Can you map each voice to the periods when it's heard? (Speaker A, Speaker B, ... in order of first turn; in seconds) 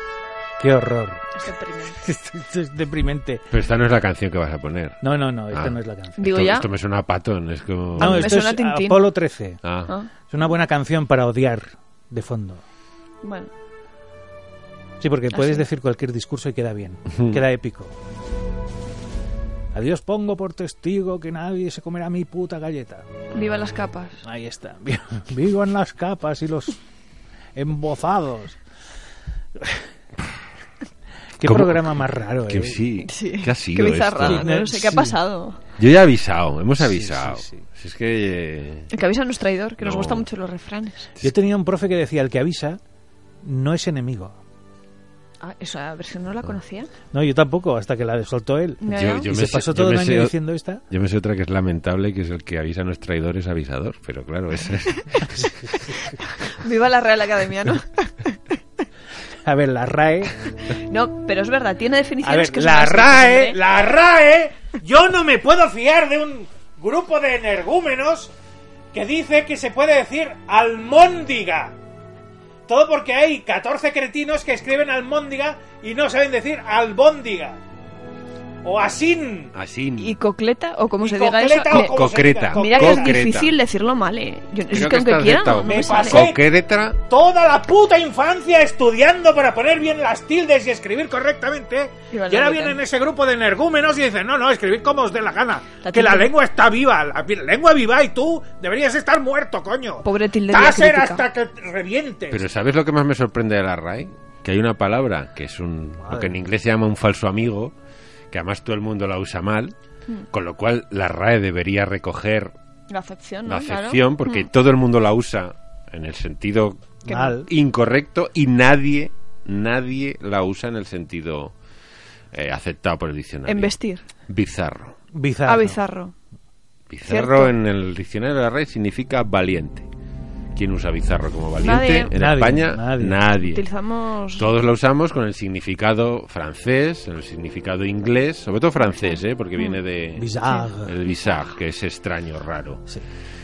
Speaker A: 0.6-1.4, 2.0-3.4, 5.0-6.3, 8.0-9.6, 10.3-12.6, 15.0-17.9, 19.7-23.1, 24.2-26.8, 27.6-28.6, 31.4-32.8, 34.2-35.2, 36.8-37.6, 41.2-42.8, 43.4-44.3, 47.1-50.8, 55.3-55.7, 59.4-60.4, 62.2-68.3, 68.9-71.7, 72.7-77.6, 78.6-79.5, 81.0-83.2, 85.7-86.5, 87.1-102.4, 106.0-106.4, 117.1-117.5, 125.1-125.8, 132.1-133.2, 140.2-140.9
Speaker B: 1.4-2.0, 6.2-6.7, 8.0-9.0, 13.2-13.5, 15.3-15.6, 23.3-24.2, 33.0-35.6, 38.9-41.1, 45.4-46.9, 48.8-49.3, 55.9-58.5, 60.6-63.6, 80.0-86.3, 92.1-92.8, 95.8-96.3, 100.0-101.2, 112.9-114.5, 117.1-117.3, 123.5-124.0, 125.5-126.1, 127.0-127.5, 131.6-132.1, 133.4-134.5, 138.8-139.8, 140.5-141.3
Speaker C: 3.5-5.0, 5.5-8.3, 9.6-9.9, 17.1-17.4, 31.4-34.5, 35.8-38.9, 39.8-40.3, 48.9-50.3, 50.9-55.2, 79.5-80.2, 81.7-83.5, 84.7-87.0, 102.3-107.7, 108.3-109.7, 110.3-112.5, 113.5-121.5, 122.3-123.7, 124.3-125.0, 126.9-129.9, 130.5-133.6, 134.4-142.8